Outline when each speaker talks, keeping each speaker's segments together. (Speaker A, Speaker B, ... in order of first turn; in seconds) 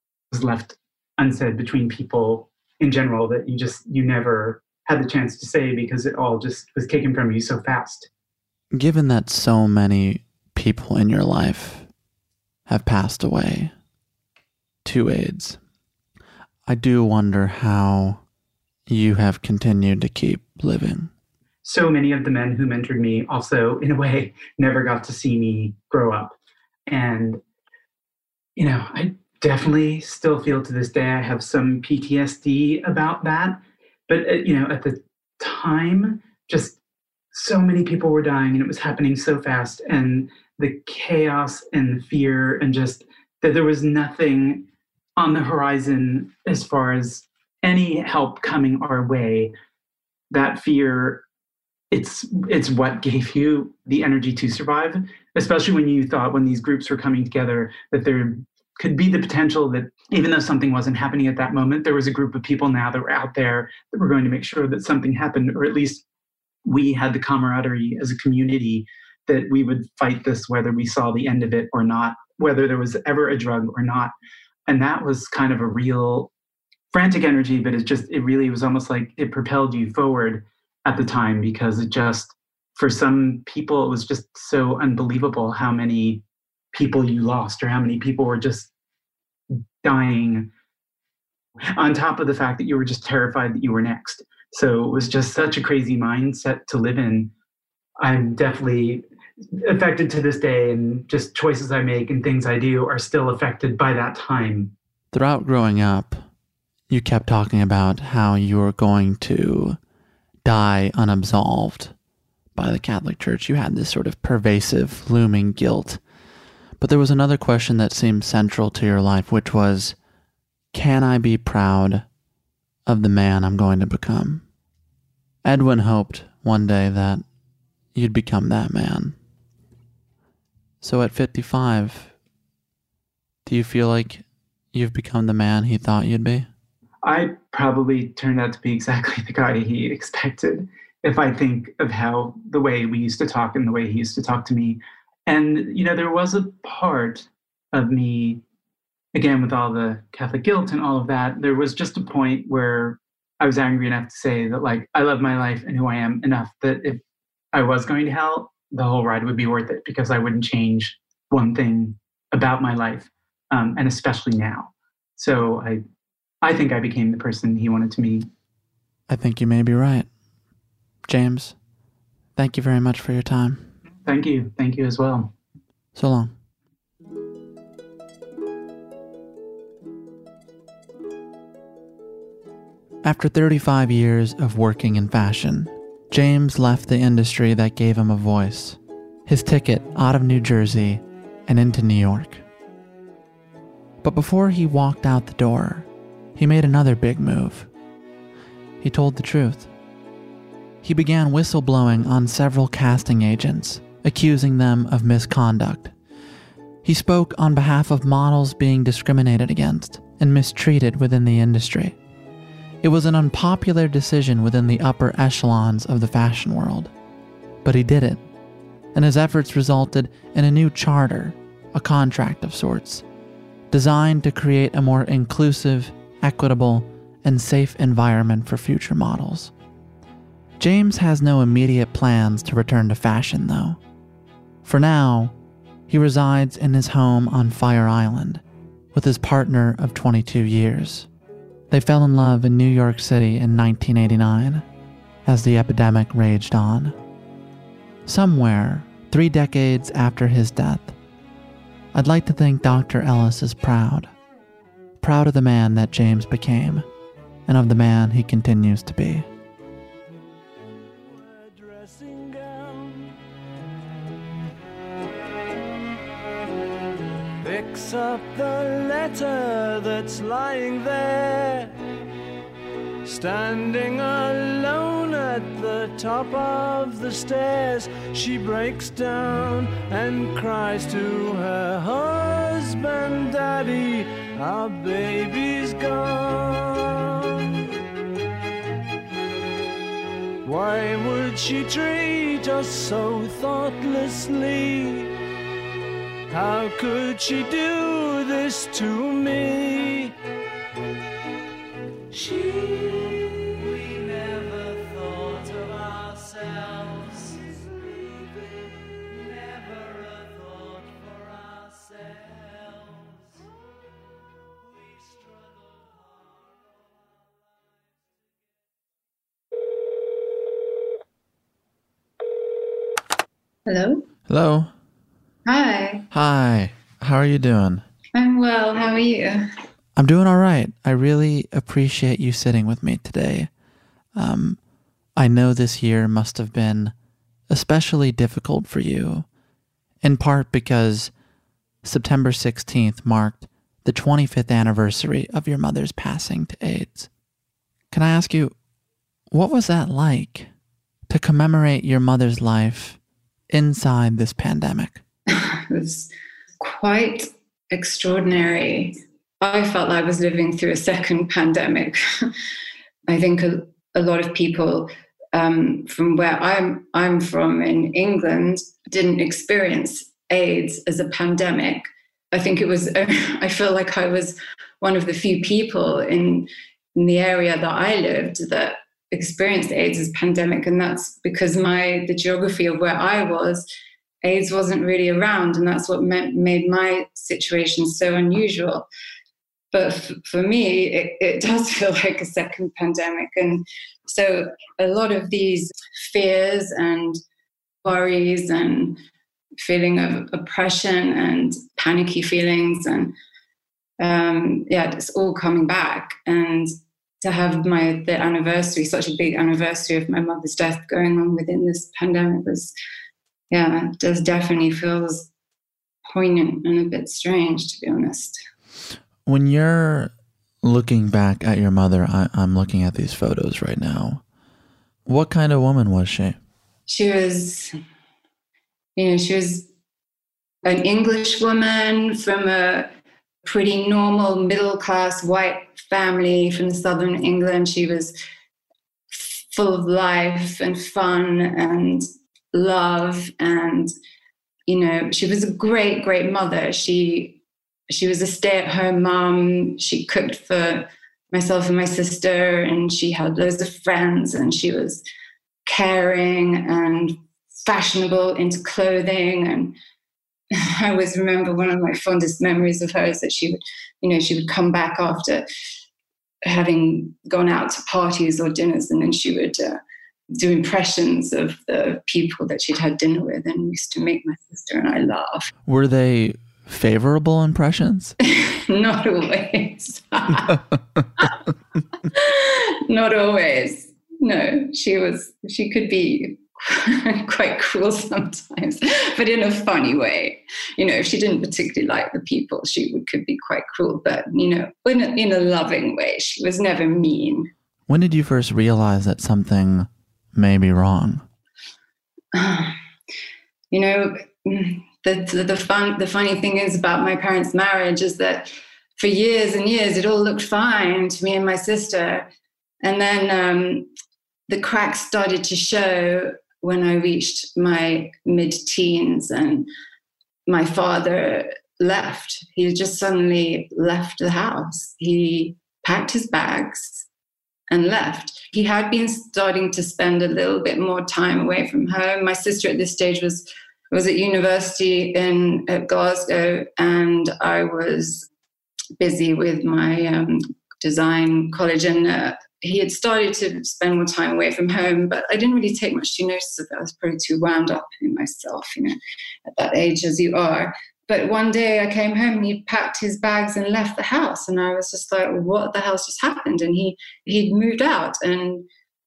Speaker A: 0.3-8.1, 21.6-26.3, 26.9-27.4, 28.6-36.8, 37.3-44.6, 45.2-49.5, 50.3-51.2, 51.9-66.0, 66.6-74.1, 74.7-76.3, 76.9-86.2, 86.7-88.7, 89.8-90.5, 91.8-97.3, 98.0-99.0, 99.6-104.7, 137.0-148.4, 149.1-157.0, 157.5-165.8, 166.4-168.3, 174.0-175.3
Speaker B: 8.7-11.9, 12.7-13.7, 14.8-15.6, 16.7-18.2, 18.9-21.1, 105.1-106.2, 106.9-109.8, 110.4-111.9, 112.5-116.0, 116.8-120.0, 120.7-122.0, 122.8-124.4, 125.4-127.2, 127.9-129.2, 130.8-132.1, 133.4-136.5, 169.1-170.1, 171.1-171.6, 172.3-173.7, 175.9-176.3, 183.0-192.4, 194.0-197.7, 198.8-199.7, 200.8-205.9, 206.8-211.9, 212.8-216.9, 217.6-218.2, 218.9-223.0, 223.7-229.5, 230.6-233.8, 234.6-235.3, 235.9-238.4, 238.9-241.1, 241.7-244.6, 245.2-246.9, 248.1-250.9, 251.9-254.1, 255.0-256.9, 257.5-259.3, 324.3-324.7, 326.1-327.8, 329.9-333.5, 334.1-334.6, 335.1-336.9, 337.5-339.2, 340.0-341.1, 341.8-347.1, 347.9-348.6, 349.3-350.5, 351.1-353.0, 353.5-355.0, 419.2-420.1, 420.6-424.2, 425.1-426.4, 475.7-478.1, 497.9-501.2
Speaker C: 260.9-263.1, 267.4-271.7, 273.0-287.7, 290.4-295.1, 296.3-300.1, 302.1-313.2, 314.8-316.5
Speaker D: 323.6-324.1, 325.4-326.0, 328.1-329.5, 355.3-362.0, 363.1-383.6, 384.2-388.9, 389.7-397.2, 397.8-399.0, 399.6-403.1, 404.0-412.7, 413.5-415.3, 416.1-418.4, 426.9-427.7, 428.9-429.7, 430.6-432.9, 433.4-438.1, 439.1-443.9, 444.7-447.4, 447.9-455.0, 455.7-459.8, 460.8-465.4, 466.4-469.8, 470.4-475.5, 478.3-480.6, 482.1-497.5, 502.3-502.7, 503.7-512.2, 512.8-513.9, 514.5-519.7, 520.5-527.0, 527.7-538.3, 539.0-558.6